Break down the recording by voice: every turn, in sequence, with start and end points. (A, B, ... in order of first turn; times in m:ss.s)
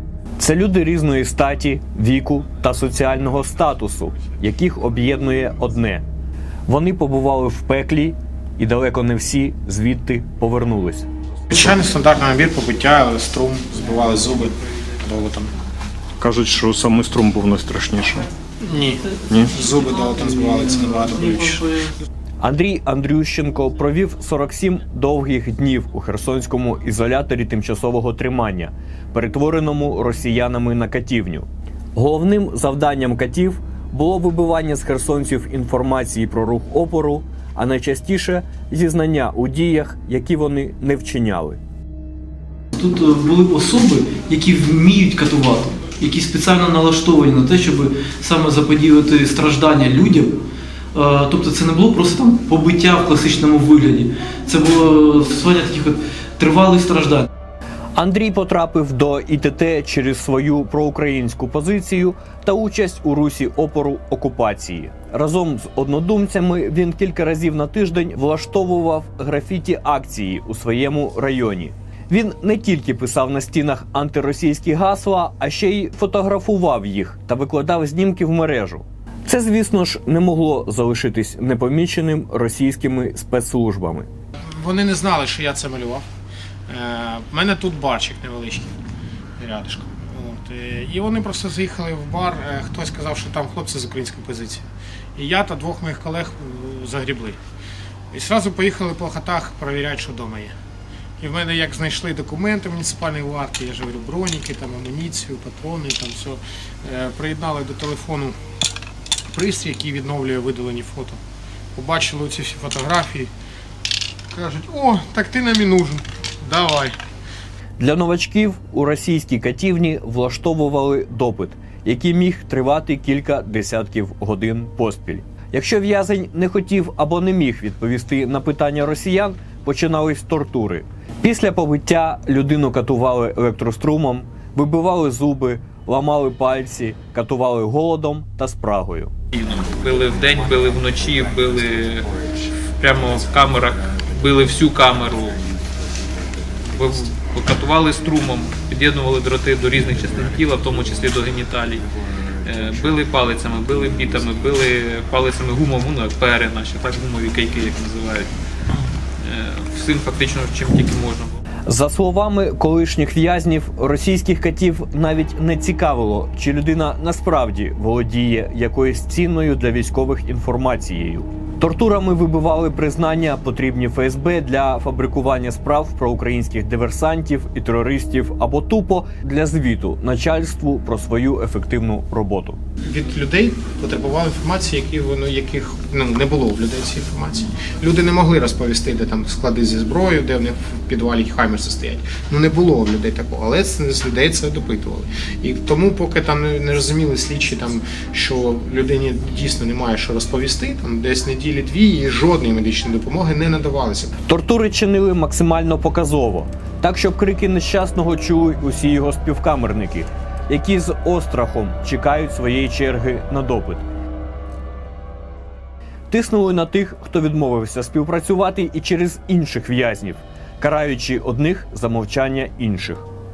0:00.4-0:06.0 A
0:06.7-0:11.1 A
0:11.5-0:15.5 B
0:16.2-0:18.3 C
0:18.6-0:21.6 B
0:19.3-0:19.5 C
0:19.6-0:21.9 D
0:22.4-0:41.6 A
0:42.7-0:50.4 D
0:50.9-0:57.3 D
0:57.9-1:24.1 A
1:24.6-1:26.0 B
1:26.7-1:28.7 B
1:29.4-1:37.4 B
1:38.1-1:40.5 B
1:41.2-1:48.3 B
1:49.3-1:51.2 B
1:51.8-1:53.3 B
1:54.3-1:56.9 B
1:57.8-2:19.1 A
2:19.3-2:22.1 E
2:22.8-2:25.4 E
2:26.7-2:31.9 E
2:32.4-2:38.3 E
2:39.2-2:41.4 E
2:41.7-3:02.6 A
3:02.8-3:24.1 B
3:24.3-3:33.8 A
3:36.1-3:43.0 A